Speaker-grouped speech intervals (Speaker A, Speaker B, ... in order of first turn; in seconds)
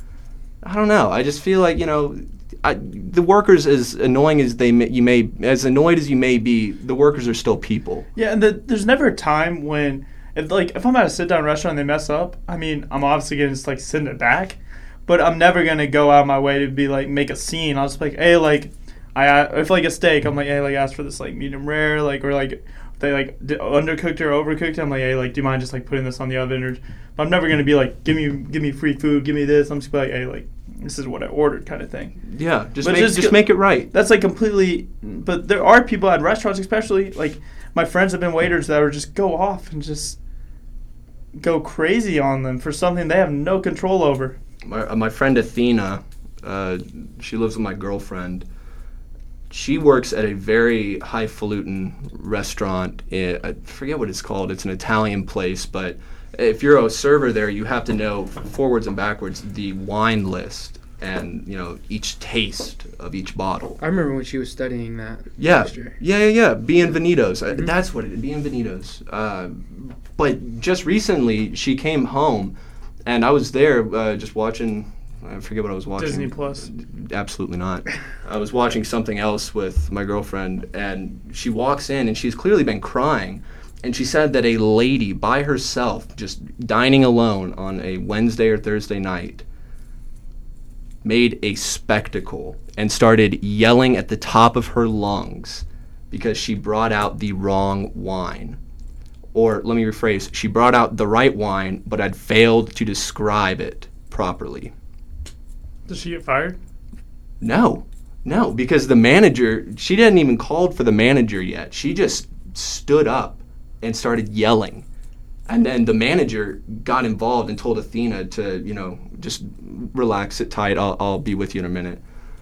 Speaker A: 0.6-8.1, 32.3-33.9, 44.6-48.5, 49.5-63.8, 65.4-72.5, 73.1-89.4, 91.0-98.6, 99.3-104.7, 107.4-114.8, 115.5-122.0
Speaker B: 8.2-32.1, 32.8-40.2, 41.4-44.4, 76.0-76.7, 105.9-106.6
Speaker C: 63.8-66.0